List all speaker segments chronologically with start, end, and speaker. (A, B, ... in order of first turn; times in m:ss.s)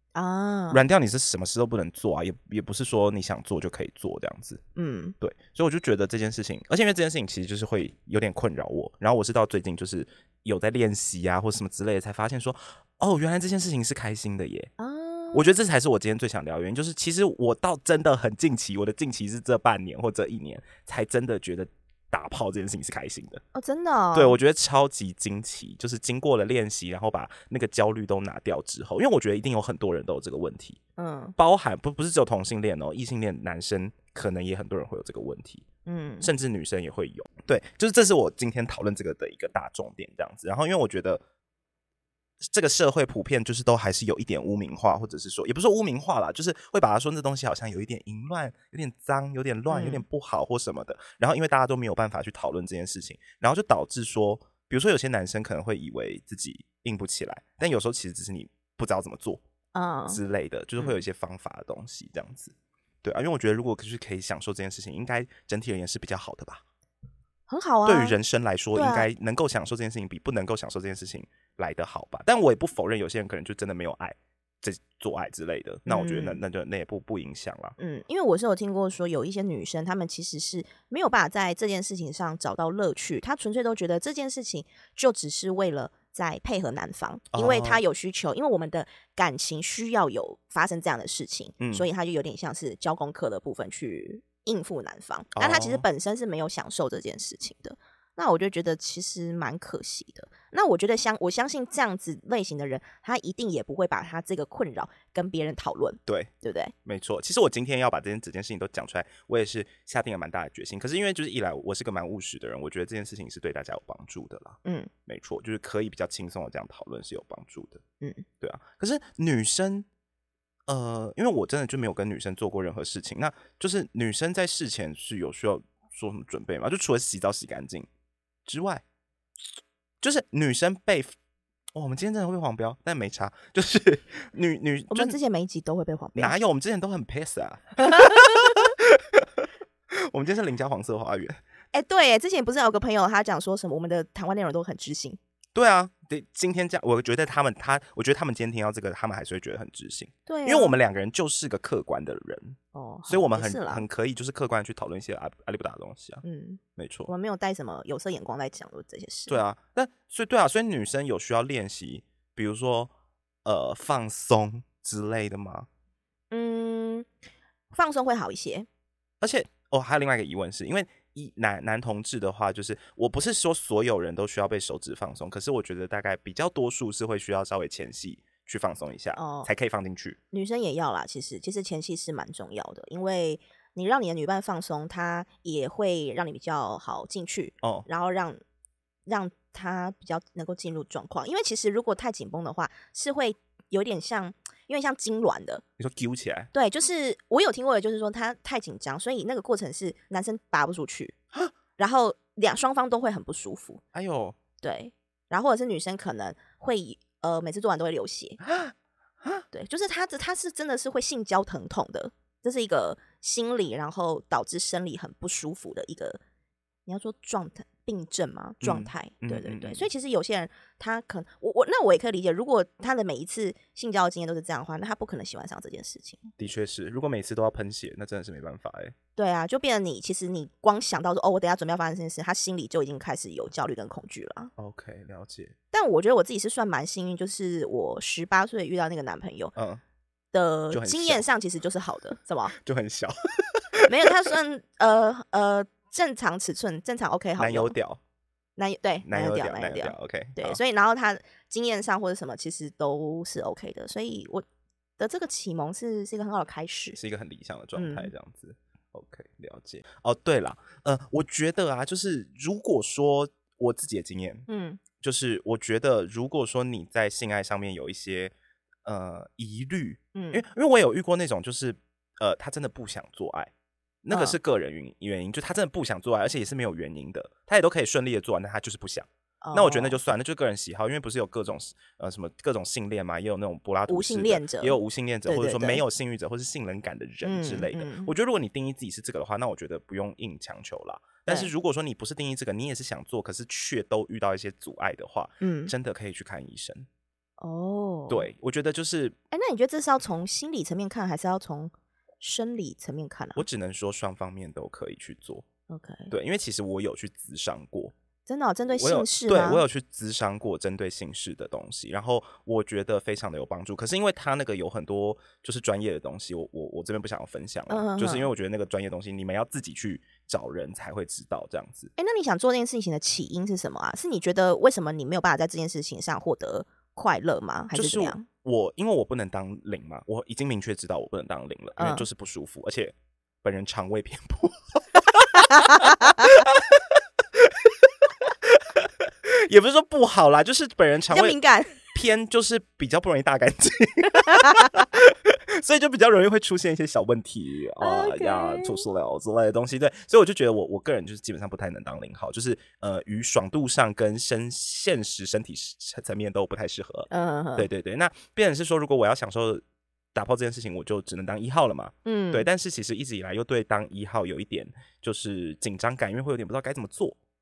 0:00.2-0:00.8 A
0:00.7-0:04.6 B
0:04.8-0:05.2 A
0:05.2-0:14.7 B
0:14.8-0:15.5 A
0:15.3-0:23.4 B
0:23.6-0:24.4 A
0:24.1-0:30.8 B
0:31.0-0:31.4 A
0:31.4-0:35.6 B
0:35.9-0:36.3 A
0:36.2-0:41.2 B
0:42.4-0:59.4 B
0:49.7-0:50.0 A
0:59.7-1:00.2 A
1:00.1-1:06.6 B
1:07.5-1:08.2 A
1:07.8-1:17.8 B
1:08.8-1:09.1 A
1:15.9-1:16.4 A
1:17.8-1:46.7 A
1:27.3-1:27.8 B
1:31.6-1:31.9 B
1:35.4-1:35.8 B
1:46.1-1:46.3 B
1:46.8-1:57.8 B
1:54.6-1:54.9 A
1:58.4-1:59.9 B
2:00.7-2:07.9 B
2:08.5-2:08.8 B
2:10.0-2:11.1 B
2:11.8-2:15.2 B
2:14.9-2:16.3 A
2:16.2-2:21.4 B
2:17.8-2:18.6 A
2:21.7-2:25.2 A
2:25.6-2:36.2 B
2:30.3-2:30.8 A
2:32.7-2:33.8 A
2:36.2-2:39.4 A
2:36.8-2:37.1 B
2:39.3-2:42.9 B
2:43.4-2:45.7 B
2:46.3-2:47.1 A
2:47.7-2:48.7 A
2:49.2-3:00.2 B
2:59.2-2:59.5 A
3:00.3-3:08.4 A
3:07.6-3:07.9 B
3:09.1-3:15.6 A
3:15.8-3:16.5 B
3:16.5-3:21.2 A
3:21.8-3:23.8 A
3:23.9-3:24.4 B
3:24.6-3:28.4 A
3:28.4-3:29.4 B
3:29.5-3:36.2 A
3:36.9-3:46.3 A
3:38.6-3:39.9 B
3:46.4-3:49.0 B
3:49.2-3:54.5 A
3:54.6-3:55.6 B
3:55.7-3:59.5 A
3:59.6-3:59.8 B
4:00.3-4:02.6 A
4:00.7-4:01.2 B
4:02.5-4:04.1 B
4:03.9-4:07.8 A
4:07.4-4:08.0 B
4:08.6-4:14.4 A
4:09.0-4:10.6 B
4:15.0-4:17.0 A
4:16.9-4:28.3 B
4:17.8-4:18.1 A
4:24.5-4:24.8 A
4:28.8-4:33.5 B
4:30.1-4:30.4 A
4:34.0-4:56.9 B
4:34.1-4:34.4 A
4:39.4-4:40.0 A
4:43.9-4:45.8 A
4:47.2-4:48.1 A
4:55.4-4:55.7 A
4:57.4-4:58.3 A
4:58.1-4:59.2 B
4:59.3-5:03.4 A
5:03.4-5:05.5 B
5:05.7-5:06.1 A
5:06.1-5:07.9 B
5:08.3-5:09.6 A
5:08.7-5:21.9 B
5:17.7-5:18.3 A
5:22.0-5:28.3 A
5:27.7-5:59.6 B
5:31.8-5:32.1 A
5:35.3-5:36.4 A
5:41.1-5:41.8 A
5:44.3-5:44.8 A
5:47.8-5:48.8 A
5:57.1-5:57.7 A
6:00.1-6:07.2 B
6:02.0-6:02.5 A